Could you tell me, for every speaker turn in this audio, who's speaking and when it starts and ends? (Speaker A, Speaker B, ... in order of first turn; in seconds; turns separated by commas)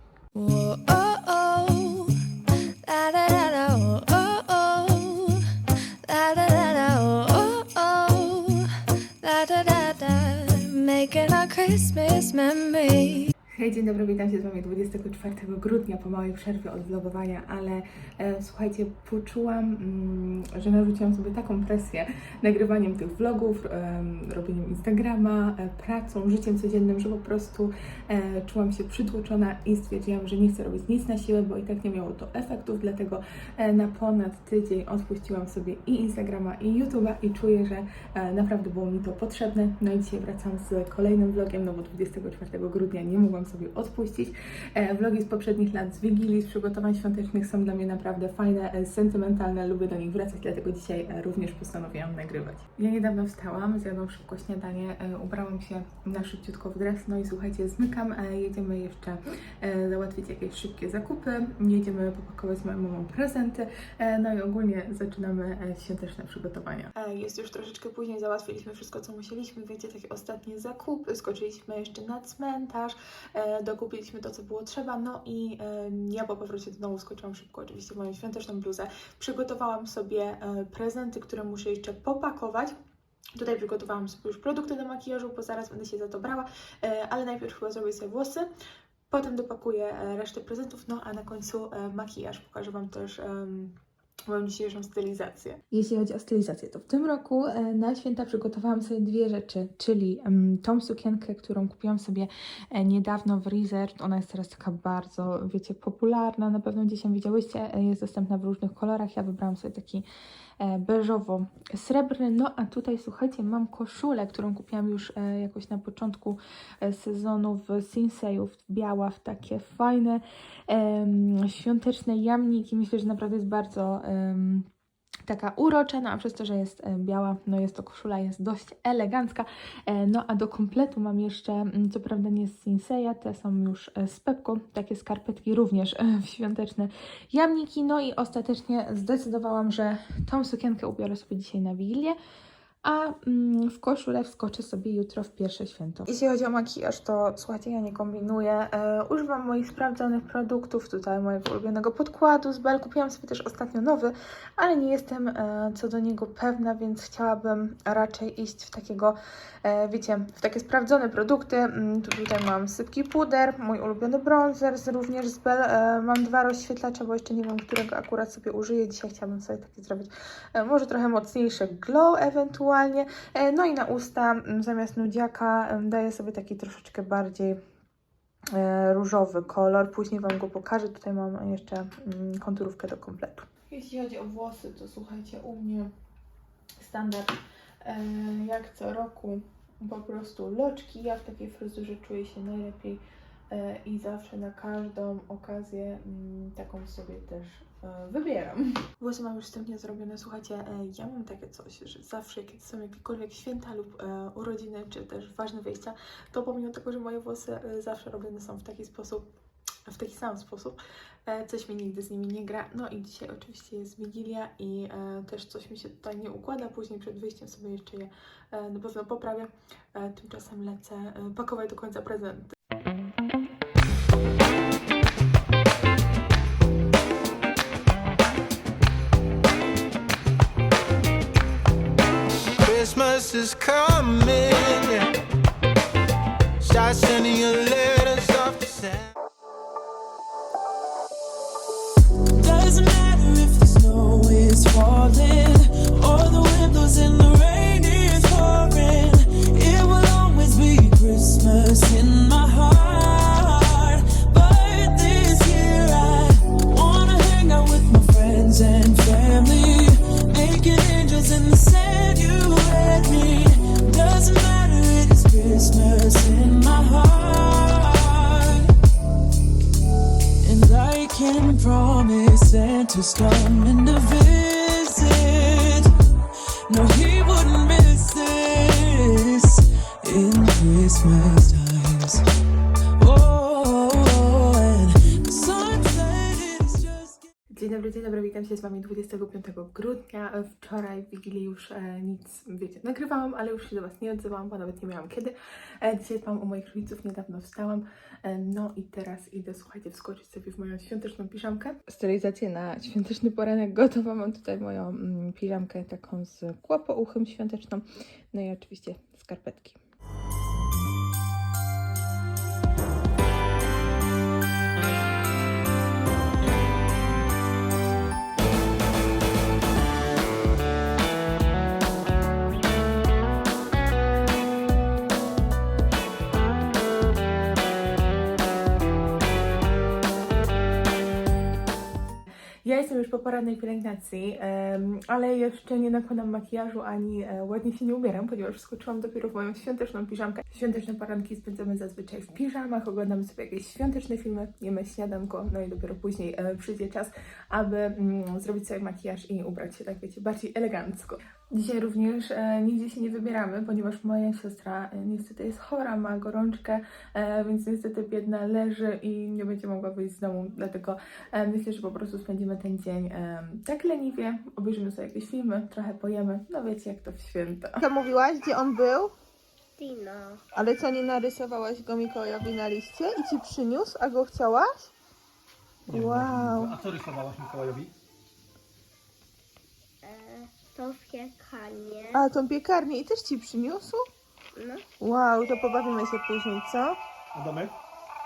Speaker A: 0.3-13.3, Speaker B: 13.5-82.7, Speaker B: 83.3-88.5, Speaker B: 89.1-110.1, Speaker B: 110.6-124.7, Speaker B: 125.2-142.2, Speaker B: 142.8-177.6, Speaker B: 178.5-185.9, Speaker B: 186.8-209.3, Speaker B: 209.8-222.6, Speaker C: 232.6-235.1, Speaker C: 236.6-239.1, Speaker D: 242.3-268.8, Speaker D: 270.4-282.2, Speaker D: 283.0-287.3, Speaker B: 287.5-309.8, Speaker B: 332.6-367.8, Speaker E: 367.8-369.1, Speaker F: 369.8-370.4, Speaker E: 370.5-374.9, Speaker E: 375.9-376.8, Speaker G: 375.9-377.9, Speaker F: 380.0-382.2, Speaker E: 382.1-384.1, Speaker F: 384.6-384.9, Speaker E: 385.0-387.0, Speaker G: 387.3-387.7